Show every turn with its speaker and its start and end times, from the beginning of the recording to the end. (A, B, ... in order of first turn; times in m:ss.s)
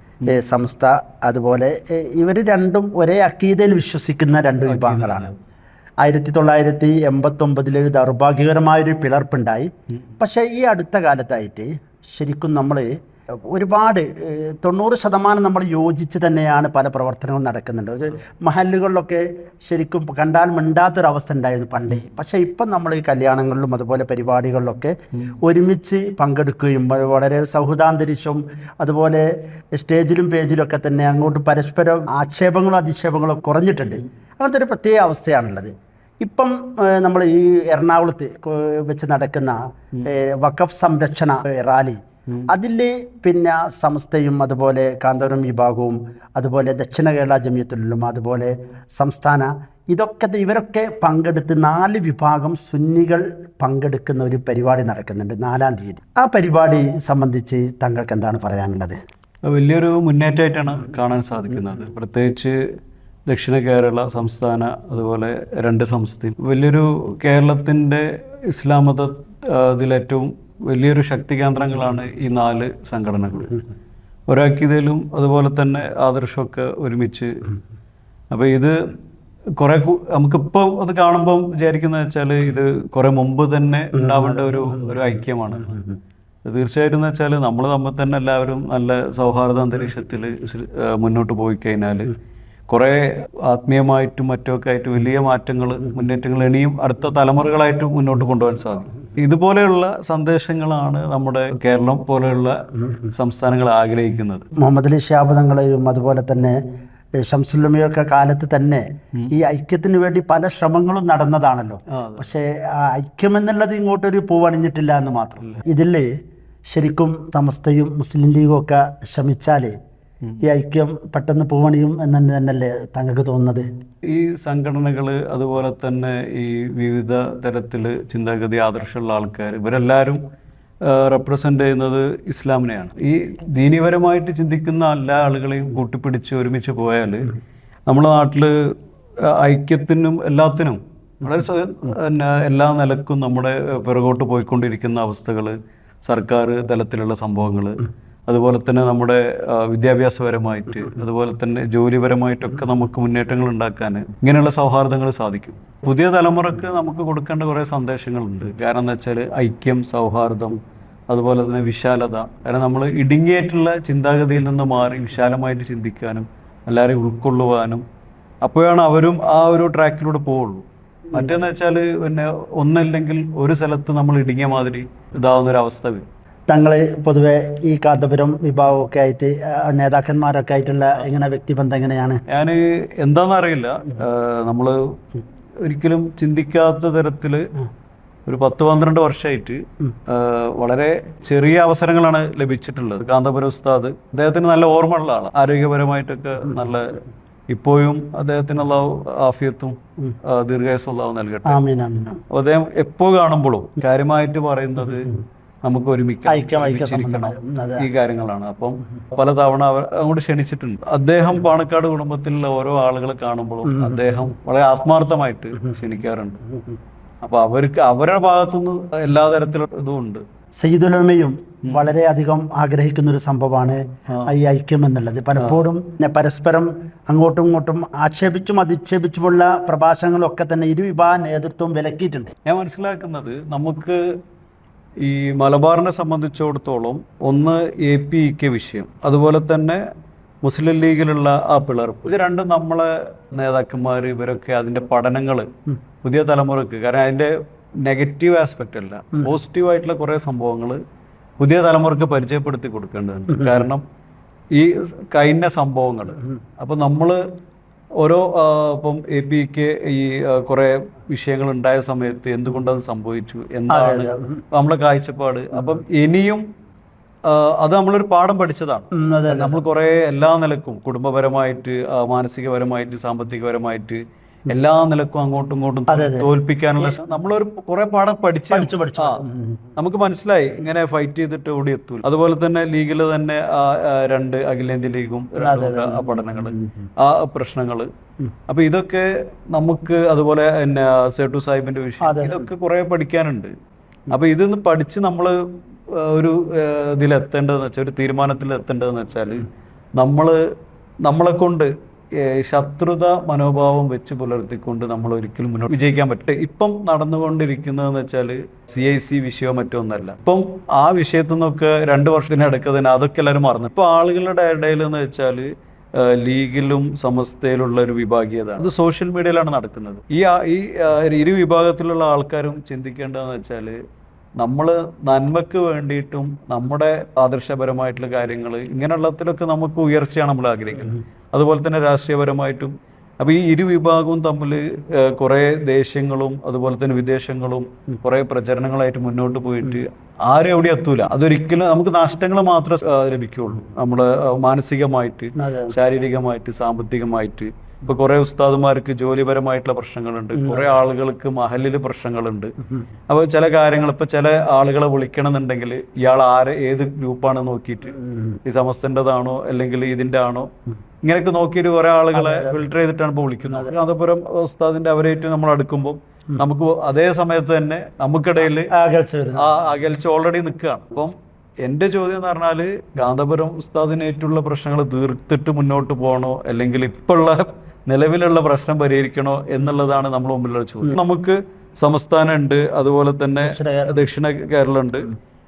0:00.2-0:05.3 A
0:04.6-0:05.3 B
0:06.0-0:12.9 A
0:13.5-0:59.0 A
0:59.5-1:02.6 B
1:03.3-1:13.6 B
1:14.3-1:17.5 B
1:18.3-1:18.8 B
1:19.6-1:25.8 B
1:26.4-1:32.1 B
1:32.7-1:42.6 B
1:43.1-1:44.5 B
1:44.6-1:46.6 A
1:47.2-1:56.1 A
1:51.9-1:52.3 B
1:56.7-1:59.7 A
2:00.4-2:03.7 A
2:04.1-2:10.2 B
2:10.8-2:17.3 B
2:17.9-2:18.5 B
2:19.3-2:25.5 B
2:26.0-2:47.8 B
2:48.4-2:56.0 B
2:56.5-3:02.2 A
3:02.3-3:05.0 B
3:05.6-3:07.5 B
3:08.2-3:21.6 B
3:21.5-3:22.2 A
3:22.3-3:25.1 B
3:25.6-3:36.4 B
3:26.3-3:27.8 A
3:37.2-3:40.2 B
3:40.6-3:52.3 A
3:52.4-3:54.0 B
3:55.0-3:59.8 B
4:00.4-4:05.5 B
4:06.0-4:10.8 B
4:11.4-4:13.8 B
4:14.5-4:17.2 B
4:18.0-4:26.4 B
4:23.7-4:24.4 A
4:27.2-4:39.2 B
4:29.0-4:29.6 A
4:35.9-4:36.3 A
4:38.5-4:39.7 A
4:39.8-4:47.9 B
4:45.4-4:46.6 A
4:48.5-4:53.5 B
4:52.0-4:52.5 A
4:54.1-4:55.4 B
4:55.9-4:59.5 B
5:00.0-5:00.4 B
5:01.0-5:23.8 B
5:24.4-5:52.5 B
5:45.4-5:45.7 A
5:53.1-6:00.5 B
6:01.0-6:08.7 B
6:02.1-6:02.6 A
6:08.7-6:09.5 A
6:09.4-6:25.1 B
6:23.4-6:24.0 A